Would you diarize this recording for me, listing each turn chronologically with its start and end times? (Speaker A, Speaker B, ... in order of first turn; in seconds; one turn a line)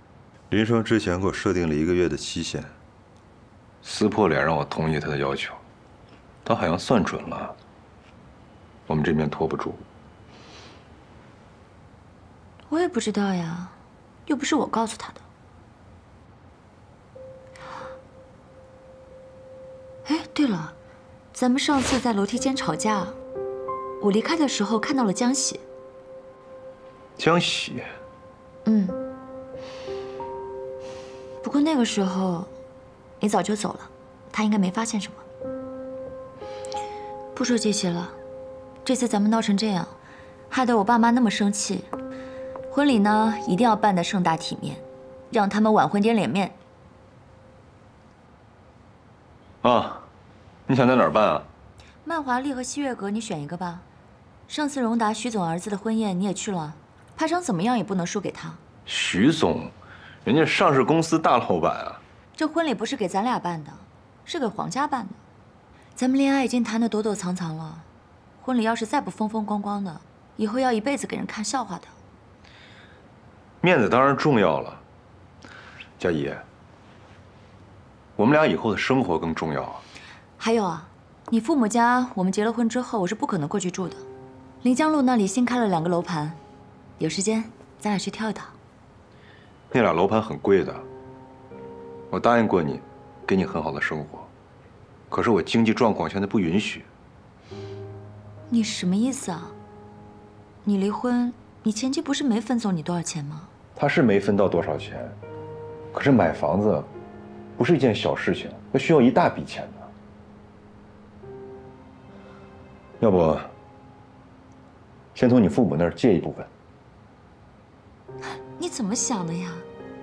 Speaker A: 0.5-2.7
Speaker A: 3.8-5.6
Speaker A: 6.4-7.5
Speaker A: 8.9-9.8
Speaker B: 12.7-15.2
Speaker B: 20.0-20.8
Speaker B: 21.3-23.2
Speaker B: 24.0-25.6
Speaker A: 27.2-27.8
Speaker B: 28.6-29.0
Speaker B: 31.4-32.5
Speaker B: 33.2-35.2
Speaker B: 37.3-38.2
Speaker B: 38.8-40.0
Speaker B: 40.5-41.9
Speaker B: 42.7-46.6
Speaker A: 49.6-50.1
Speaker A: 50.7-51.5
Speaker B: 52.0-53.9
Speaker B: 54.5-58.6
Speaker A: 58.9-59.7
Speaker A: 60.2-62.0
Speaker B: 62.4-65.2
Speaker B: 66.0-71.9
Speaker A: 73.6-74.8
Speaker A: 76.0-76.4
Speaker A: 78.2-79.8
Speaker B: 80.4-84.0
Speaker B: 84.6-86.4
Speaker B: 87.0-88.5
Speaker A: 89.7-90.8
Speaker A: 92.1-94.3
Speaker A: 95.1-96.9
Speaker B: 98.5-99.5
Speaker B: 100.6-103.5
Speaker A: 103.8-105.2
Speaker A: 105.9-106.9
Speaker A: 107.6-109.9
Speaker A: 113.0-113.5
Speaker A: 115.1-116.5
Speaker B: 118.5-119.7